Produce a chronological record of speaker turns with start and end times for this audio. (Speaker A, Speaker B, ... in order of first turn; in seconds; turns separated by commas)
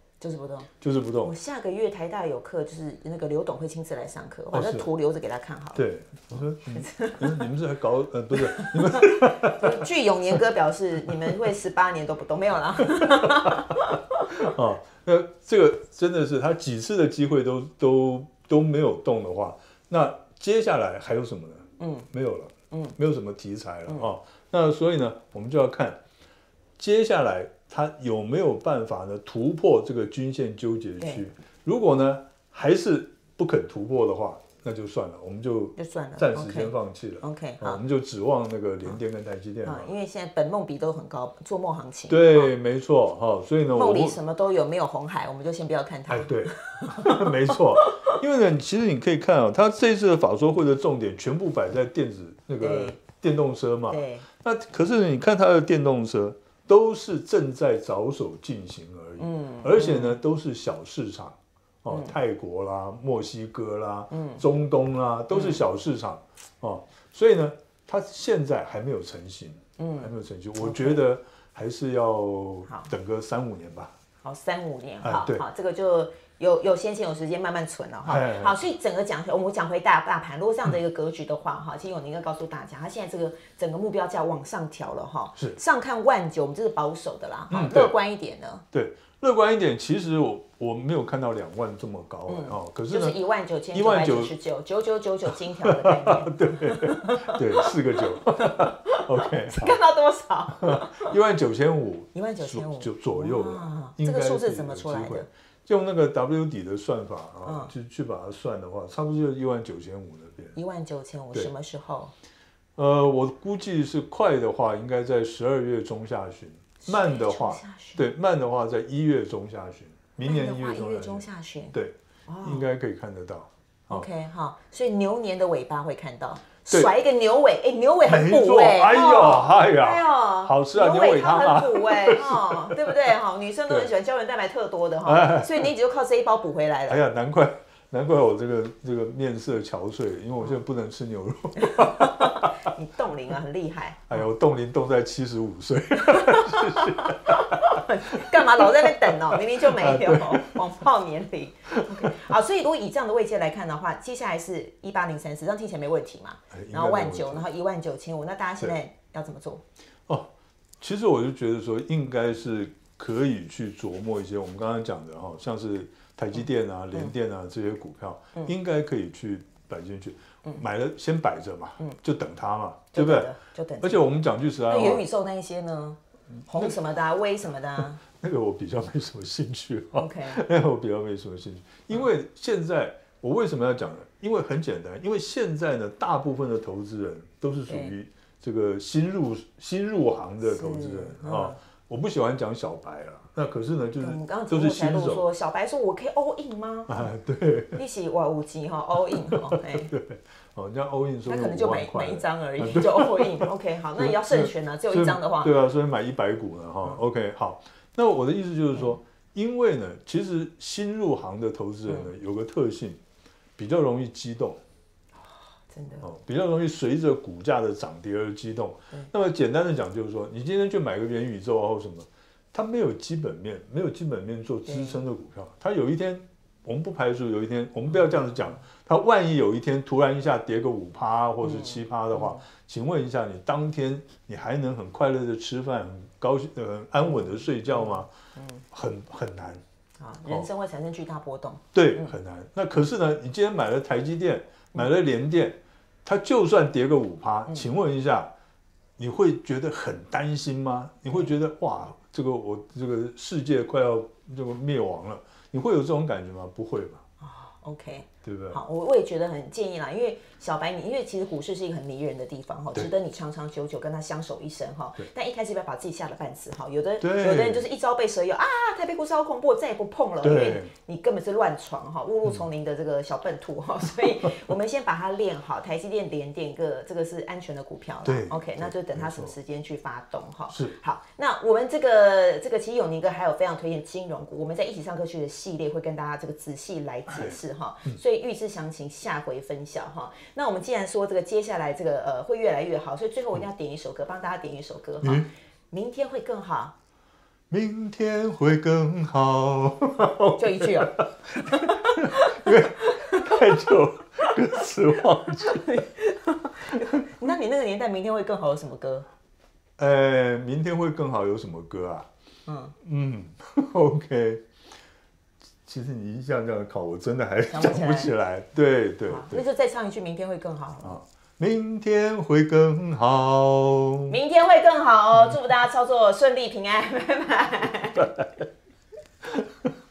Speaker A: 0.2-0.7, Speaker B: 0.8-1.3, Speaker A: 1.2-5.8, Speaker B: 4.5-4.9, Speaker B: 5.7-9.7, Speaker A: 6.6-7.5, Speaker A: 8.4-14.3, Speaker B: 12.9-13.5, Speaker B: 14.3-26.0, Speaker A: 21.8-22.1, Speaker B: 26.8-39.9, Speaker A: 35.8-37.8, Speaker A: 39.6-42.5, Speaker B: 42.1-44.2, Speaker A: 43.7-48.2, Speaker B: 46.1-73.9, Speaker A: 52.6-53.0, Speaker A: 53.9-54.2, Speaker A: 59.2-60.2, Speaker A: 61.9-62.1, Speaker A: 64.1-64.4, Speaker A: 65.3-65.6, Speaker A: 69.8-71.0, Speaker A: 74.2-88.6, Speaker B: 75.0-75.4, Speaker B: 78.0-78.6, Speaker B: 87.5-87.9, Speaker B: 88.7-93.2, Speaker A: 92.3-97.7, Speaker B: 93.7-94.3, Speaker B: 95.6-99.8, Speaker A: 98.4-101.1, Speaker B: 100.5-110.6, Speaker A: 102.1-105.3, Speaker A: 107.4-107.7, Speaker A: 110.5-112.1, Speaker B: 112.8-124.1, Speaker A: 116.8-118.0, Speaker A: 120.2-121.7, Speaker A: 122.3-122.7, Speaker A: 123.9-137.0, Speaker B: 128.0-132.9, Speaker B: 135.1-135.7, Speaker B: 136.9-142.6, Speaker A: 141.6-144.2, Speaker B: 144.1-150.6, Speaker A: 146.4-159.6, Speaker B: 156.5-157.4, Speaker B: 160.8-173.3, Speaker A: 172.9-174.1, Speaker B: 173.8-175.1, Speaker A: 174.6-178.0, Speaker B: 176.5-176.8, Speaker B: 177.8-195.2, Speaker A: 179.9-180.4, Speaker A: 187.7-187.9, Speaker A: 190.4-191.6, Speaker A: 194.0-197.1, Speaker B: 196.9-197.8, Speaker A: 197.7-199.9, Speaker B: 199.1-213.0, Speaker A: 201.3-205.5, Speaker B: 213.6-214.6, Speaker A: 215.2-216.1, Speaker B: 216.0-238.1, Speaker A: 224.7-225.0, Speaker A: 231.4-232.4, Speaker A: 237.4-238.6, Speaker B: 238.7-239.6, Speaker A: 240.0-242.1, Speaker B: 241.7-248.3, Speaker B: 249.0-257.0, Speaker A: 257.2-296.7, Speaker B: 258.2-258.6, Speaker B: 267.0-267.6, Speaker B: 270.2-270.7, Speaker B: 278.0-279.3, Speaker B: 280.5-280.7, Speaker B: 287.1-288.0, Speaker B: 295.0-295.3, Speaker B: 297.5-305.7, Speaker A: 300.4-303.4, Speaker A: 304.6-309.1, Speaker B: 309.8-312.1, Speaker A: 312.5-312.7, Speaker B: 312.8-314.4, Speaker B: 315.6-319.4, Speaker A: 317.5-318.1, Speaker A: 319.1-321.0, Speaker B: 320.8-324.1, Speaker A: 324.1-328.2